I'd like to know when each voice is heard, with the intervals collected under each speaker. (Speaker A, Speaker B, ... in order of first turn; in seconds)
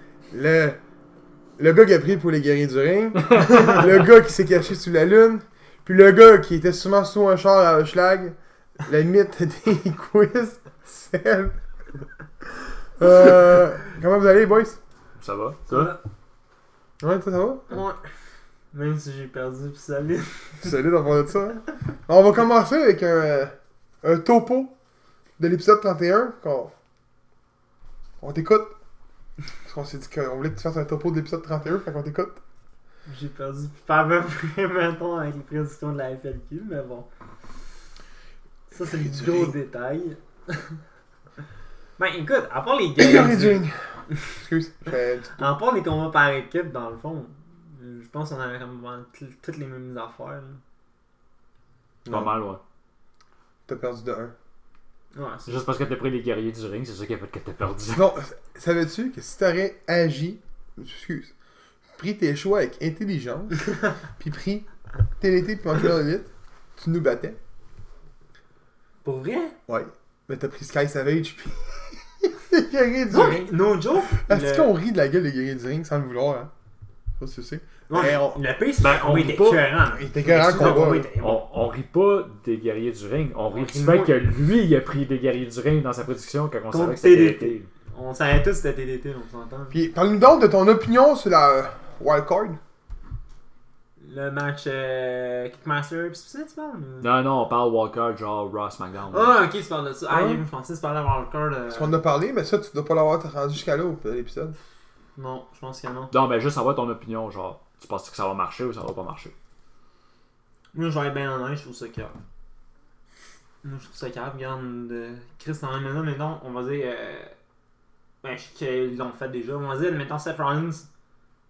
Speaker A: 0.3-0.8, 1.6-11.6, 13.0-14.8, 17.0-17.7, 20.6-24.7, 25.4-26.7, 28.2-28.8, 29.6-32.4, 38.8-39.5, 43.0-45.5, 52.0-52.4, 53.7-54.3, 57.9-61.3, 62.0-64.7, 65.2-67.4, 69.7-73.5, 74.0-76.5, 77.2-78.4, 79.9-81.1, 89.7-92.6, 100.1-100.4, 101.7-104.5
Speaker B: 15.2-15.7, 52.1-52.6, 55.5-58.1, 78.8-79.7, 80.6-87.7, 97.0-99.4, 106.1-109.3
Speaker C: 15.7-16.0, 17.7-18.0, 18.7-20.7, 33.1-37.1, 38.7-40.8, 42.0-44.2, 45.4-50.6, 55.1-55.7, 69.0-69.5, 73.1-74.7, 77.9-81.5, 83.5-84.2, 86.7-89.7, 94.0-97.1, 99.1-102.0, 105.2-106.1, 110.7-112.2, 113.6-117.3, 118.2-120.9